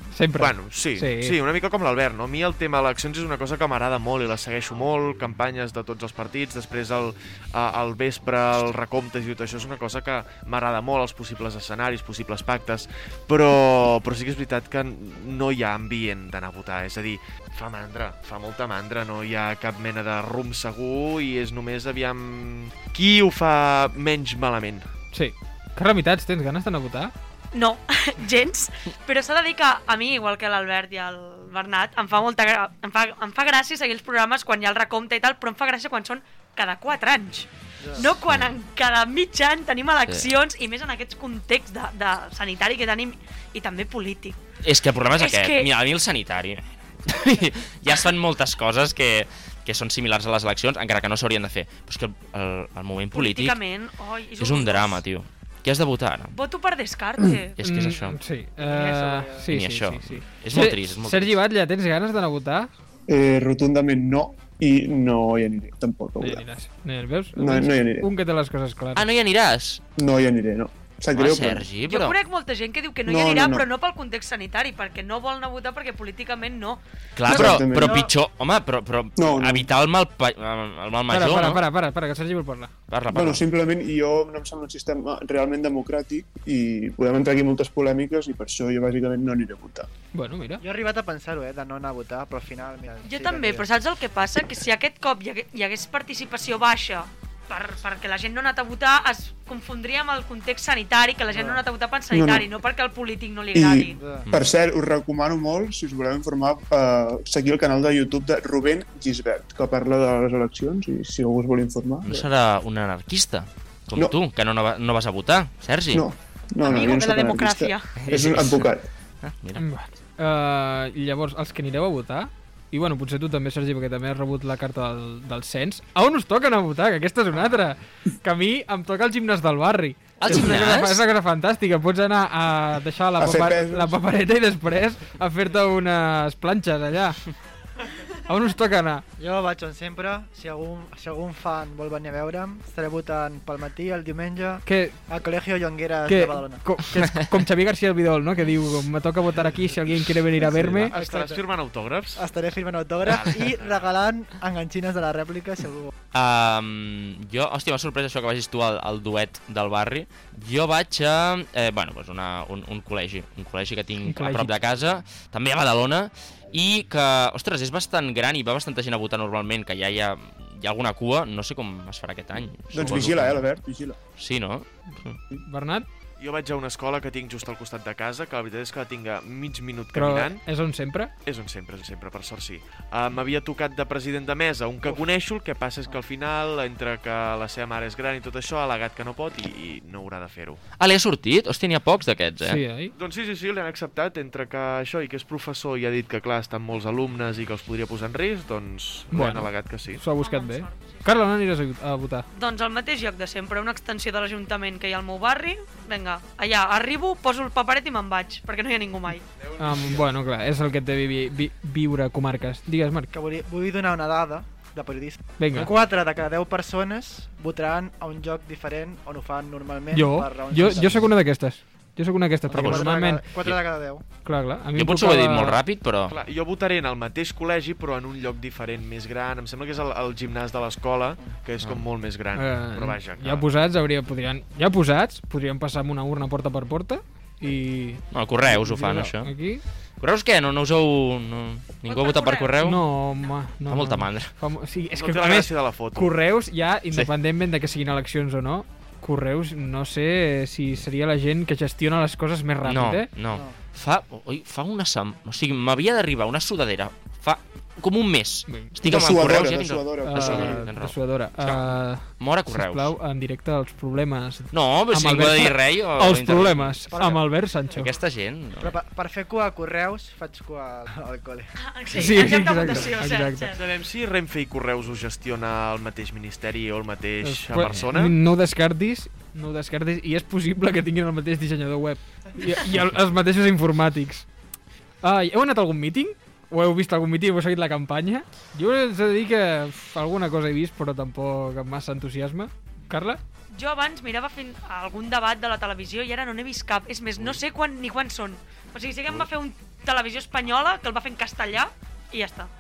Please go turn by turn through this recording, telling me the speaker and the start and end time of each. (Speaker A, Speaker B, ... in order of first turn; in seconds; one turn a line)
Speaker A: 0.1-1.4
Speaker B: 0.3-24.9
Speaker A: 25.1-27.1
Speaker C: 27.5-44.4
Speaker D: 37.8-38.1
Speaker E: 44.6-53.6
Speaker C: 45.1-45.7
Speaker C: 53.1-55.0
Speaker E: 54.4-56.4
Speaker C: 56.4-57.6
Speaker E: 57.6-58.2
Speaker A: 57.6-62.7
Speaker D: 58.6-59.5
Speaker E: 59.5-61.4
Speaker F: 63.1-66.5
Speaker A: 66.2-69.1
Speaker F: 67.4-68.1
Speaker E: 69.0-69.8
Speaker F: 70.0-71.7
Speaker E: 71.2-72.2
Speaker C: 71.9-76.8
Speaker F: 73.1-73.7
Speaker E: 77.2-81.6
Speaker F: 77.3-78.1
Speaker D: 77.3-78.1
Speaker F: 79.2-79.7
Speaker A: 81.1-82.7
Speaker E: 82.9-83.4
Speaker F: 83.1-89.9
Speaker A: 90.1-90.6
Speaker D: 90.6-93.7
Speaker C: 93.0-104.0
Speaker D: 101.3-101.6
Speaker F: 102.1-102.5
Speaker F: 103.5-112.3
Speaker D: 104.0-104.3
Speaker E: 112.0-116.1
Speaker F: 115.9-118.9
Speaker C: 116.6-117.9
Speaker E: 118.0-118.7
Speaker E: 119.2-119.7
Speaker A: 119.6-137.2
Speaker E: 130.2-131.0
Speaker F: 133.2-134.0
Speaker A: 138.3-139.0
Speaker D: 139.2-146.6
Speaker A: 144.7-145.0
Speaker A: 146.1-150.9
Speaker B: 150.5-152.2
Speaker D: 150.8-151.4
Speaker D: 152.2-155.9
Speaker E: 156.1-173.5
Speaker A: 164.1-164.5
Speaker F: 172.7-174.0
Speaker E: 174.2-175.2
Speaker A: 175.4-175.9
Speaker B: 176.2-180.4
Speaker A: 179.9-181.1
Speaker B: 181.2-190.6
Speaker E: 190.8-192.6
Speaker A: 192.4-192.9
Speaker B: 192.9-200.0
Speaker A: 199.1-202.3
Speaker C: 200.2-201.2
Speaker C: 202.3-209.2
Speaker A: 209.6-213.1
Speaker B: 209.7-210.0
Speaker D: 213.1-221.1
Speaker A: 215.4-215.7
Speaker A: 219.9-223.2
Speaker D: 222.5-224.0
Speaker E: 222.6-222.9
Speaker A: 224.2-225.6
Speaker E: 224.8-226.2
Speaker B: 226.1-233.5
Speaker A: 232.3-239.6
Speaker E: 238.1-239.3
Speaker E: 240.0-242.8
Speaker C: 241.9-242.6
Speaker A: 242.6-253.1
Speaker E: 243.7-244.3
Speaker B: 244.9-246.1
Speaker E: 252.6-262.9
Speaker D: 253.3-253.6
Speaker A: 258.5-258.8
Speaker F: 258.8-260.7
Speaker A: 260.0-267.9
Speaker E: 264.5-267.2
Speaker E: 267.7-268.8
Speaker D: 268.6-272.7
Speaker C: 271.6-273.6
Speaker A: 271.9-273.5
Speaker B: 273.5-278.2
Speaker A: 277.2-284.3
Speaker A: 285.0-293.2
Speaker C: 293.5-302.5